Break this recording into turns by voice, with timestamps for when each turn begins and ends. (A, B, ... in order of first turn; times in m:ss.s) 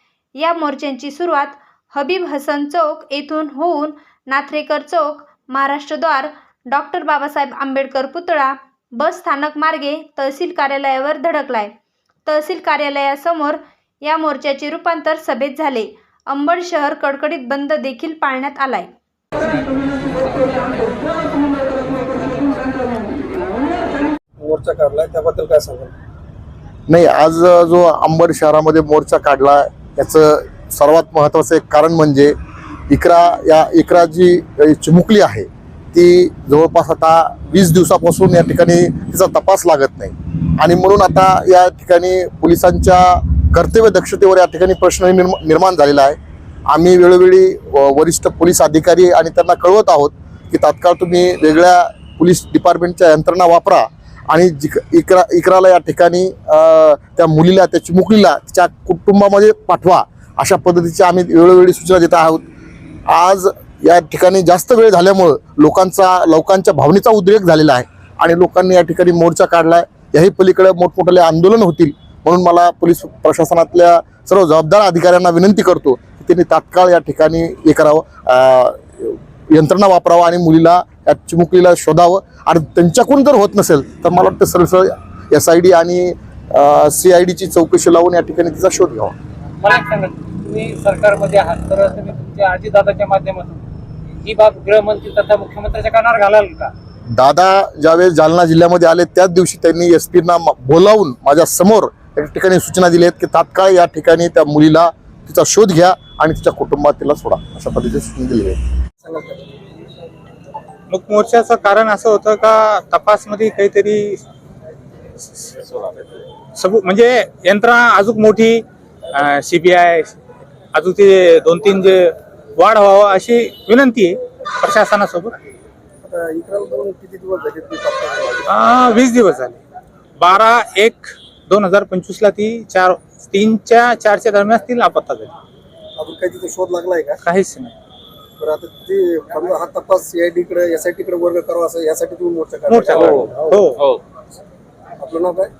0:00.4-0:11.7 A
0:12.2-0:18.9 A
0:24.4-0:25.9 B
0:26.9-0:32.4 C
0:32.9-0:46.2 C
0:46.7-1:02.4 C
1:03.1-1:29.1 C
1:29.6-1:33.6 D
1:34.2-1:36.7 D
1:37.1-1:48.6 C
1:49.0-1:49.4 B
1:50.9-1:54.2 E
1:55.3-1:55.8 E
1:56.5-2:00.2 E
2:00.7-2:05.4 E
2:06.0-2:08.5 B
2:08.4-2:09.6 E
2:10.2-2:15.3 E
2:16.0-2:17.2 B
2:17.2-2:17.7 E
2:18.4-2:23.6 B
2:22.7-2:23.8 E
2:25.0-2:25.5 B